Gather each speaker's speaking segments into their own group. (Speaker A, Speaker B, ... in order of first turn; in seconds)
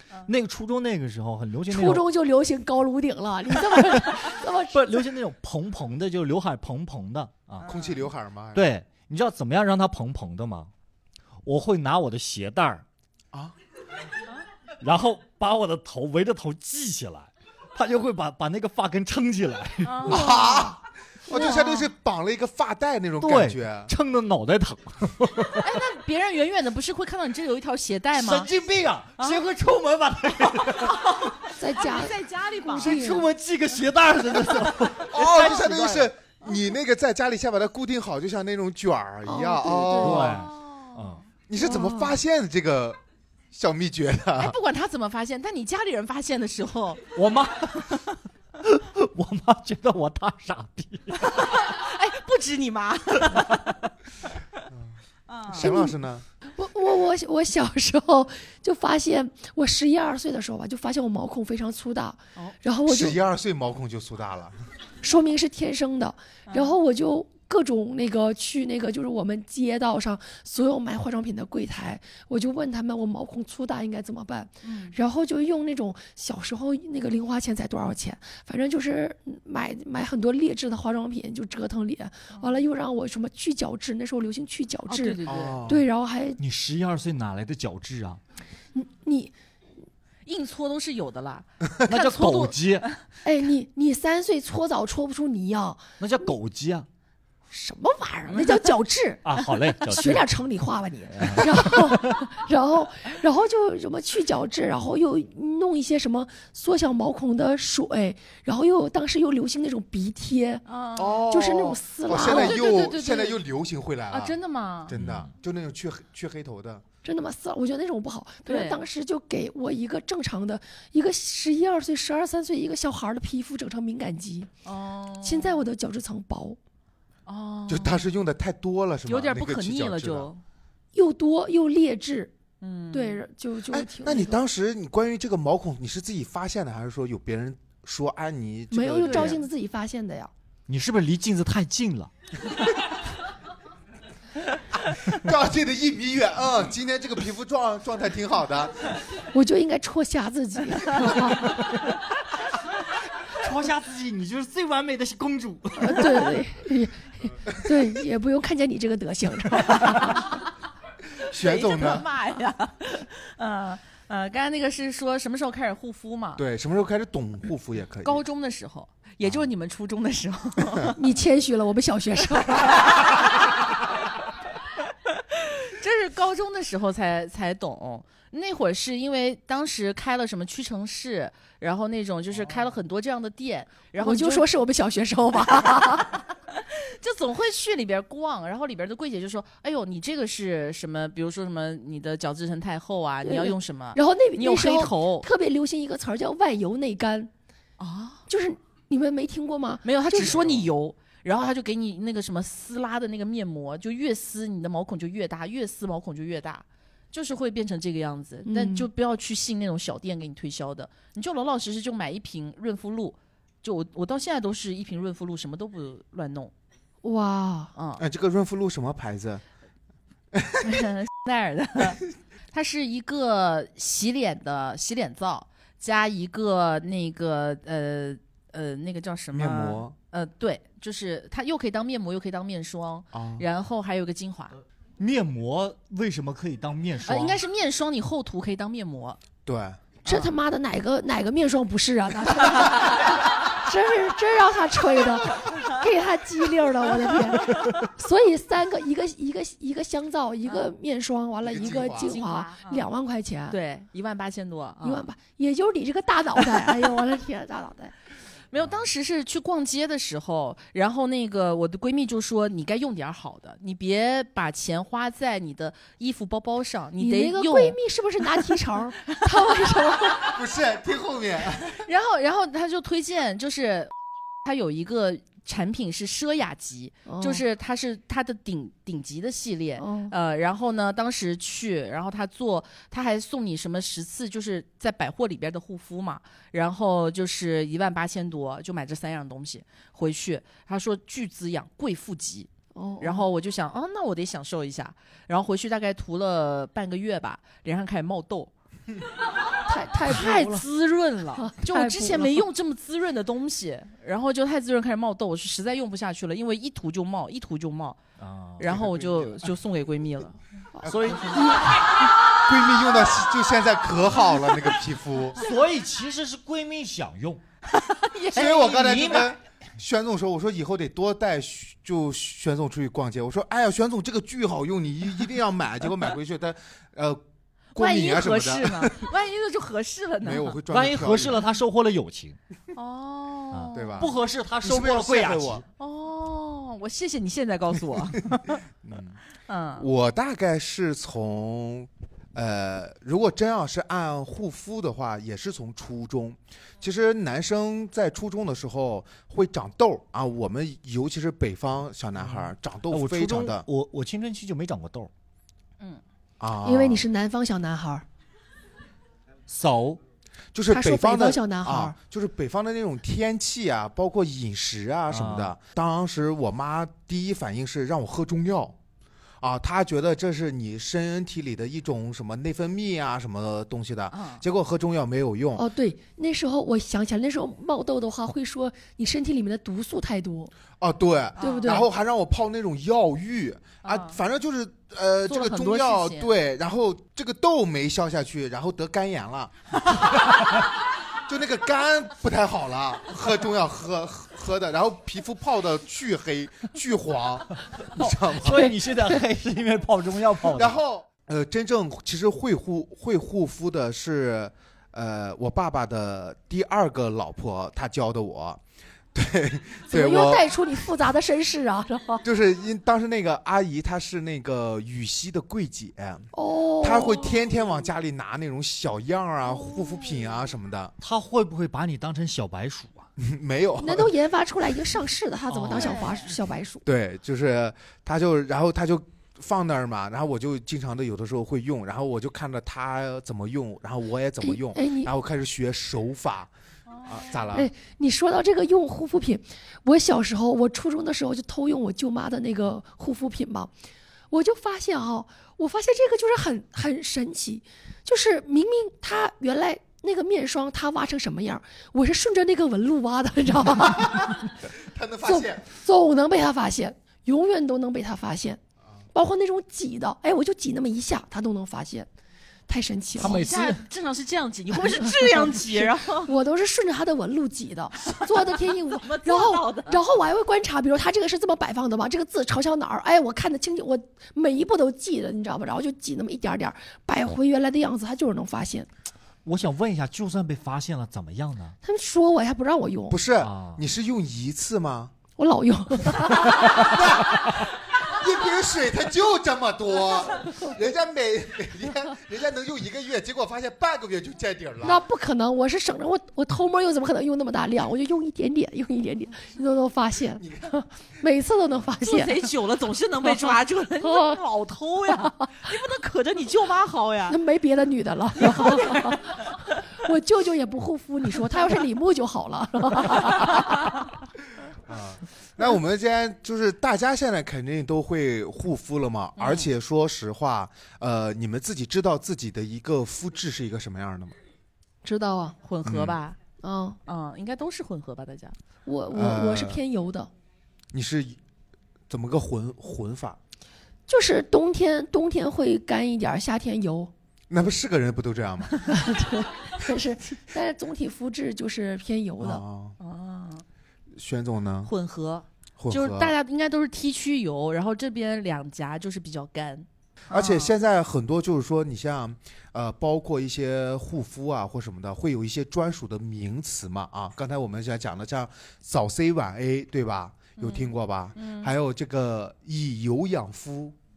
Speaker A: 0.3-2.0, 4.7-7.7, 8.5-10.7, 11.4-12.8, 14.8-20.2, 23.2-25.7, 28.1-31.3, 32.8-36.1, 40.0-41.2, 47.1-48.0, 48.6-51.4, 86.4-88.2, 91.8-92.9, 96.0-96.9, 99.2-100.3, 101.2-102.3, 114.9-115.3, 140.7-142.1, 153.3-156.4, 235.0-237.4, 308.2-308.8, 310.8-311.7, 315.4-317.4, 318.6-319.4, 330.7-332.4, 333.5-335.6, 352.2-355.1, 359.5-360.0, 365.1-365.5, 397.9-400.8, 421.0-423.1, 425.5-426.0, 463.2-463.8, 479.4-481.8, 483.4-483.8
Speaker B: 1.7-5.1, 20.1-20.7, 21.3-21.8, 31.6-33.3, 39.3-40.3, 41.6-42.1, 55.5-56.0, 56.6-63.2, 65.0-86.4, 88.7-89.3, 93.2-95.8, 97.5-110.6, 111.3-112.6, 117.0-124.5, 125.2-126.6, 130.9-132.3, 132.9-134.4, 138.7-140.3, 149.3-151.7, 155.8-160.3, 170.9-173.2, 184.0-186.2, 193.2-197.3, 198.3-200.4, 208.5-208.9, 217.0-217.7, 240.1-253.6, 254.8-257.9, 267.0-270.4, 277.1-277.4, 279.8-280.1, 292.8-293.3, 299.7-300.7, 301.4-302.5, 310.8-311.8, 356.6-358.1, 360.7-361.9, 375.6-380.5, 381.4-381.9, 409.9-412.2, 416.3-417.4, 423.8-426.8, 434.4-435.1, 437.5-443.7, 444.3-454.5, 455.2-458.6, 459.1-462.1, 462.7-463.5, 464.9-478.9, 481.8-483.2, 485.4-487.1, 494.8-502.5, 503.4-504.4, 507.3-514.0, 525.0-525.6, 526.6-527.0, 528.9-530.3, 534.1-537.1, 538.9-542.6
Speaker C: 7.6-8.7, 20.1-23.9, 34.6-40.4, 41.5-43.0, 43.5-44.6, 55.5-56.2, 62.9-64.6, 85.3-85.8, 111.0-114.4, 114.9-116.8, 127.7-130.3, 133.7-139.5, 144.9-149.0, 161.2-162.1, 166.4-168.2, 200.3-200.6, 218.0-219.4, 220.3-220.7, 229.3-229.9, 233.1-233.4, 239.4-239.8, 251.4-252.2, 270.3-271.8, 308.6-309.4, 310.8-311.2, 312.4-315.4, 318.3-327.2, 327.8-329.1, 330.2-331.4, 333.7-335.6, 338.8-339.2, 339.8-353.7, 356.4-357.1, 360.5-368.8, 369.4-375.7, 380.8-390.5, 391.3-398.7, 400.5-408.6, 409.1-410.5, 412.2-420.9, 423.2-424.1, 426.9-436.5, 437.1-437.7, 454.1-455.7, 483.1-485.1, 486.6-495.0, 500.4-500.7, 514.9-524.4, 525.8-526.2, 529.1-529.8, 530.9-531.4, 532.1-533.4, 537.5-538.9, 542.4-543.0, 544.1-544.9, 545.8-546.4, 550.3-564.0
Speaker D: 7.7-8.1, 19.8-20.7, 25.6-28.5, 30.9-31.2, 31.7-33.2, 39.8-41.2, 44.4-47.1, 51.2-53.8, 55.3-55.7, 66.5-66.8, 74.6-75.0, 84.9-85.6, 90.3-93.0, 110.7-111.2, 112.1-113.4, 114.1-114.9, 118.5-118.8, 124.7-125.6, 127.3-128.0, 129.1-130.4, 132.6-133.2, 139.0-139.4, 161.3-166.4, 168.0-171.0, 175.2-184.5, 186.5-195.3, 197.8-198.2, 199.8-216.5, 217.8-218.0, 220.6-234.6, 237.1-239.2, 240.1-240.3, 250.5-250.7, 251.9-252.8, 253.5-255.1, 258.5-267.8, 271.7-273.9, 274.4-292.5, 293.0-298.5, 300.1-308.0, 308.6-310.4, 317.7-319.2, 327.8-330.6, 332.8-334.1, 335.8-338.6, 339.5-339.9, 374.1-374.4, 381.4-381.9, 383.8-384.2, 385.3-386.3, 425.7-426.3, 436.9-437.4, 463.2-466.3, 468.1-470.0, 502.0-507.4, 508.4-509.4, 519.4-519.7, 525.6-526.4, 527.1-528.6, 543.0-543.6, 544.9-550.7, 560.6-561.7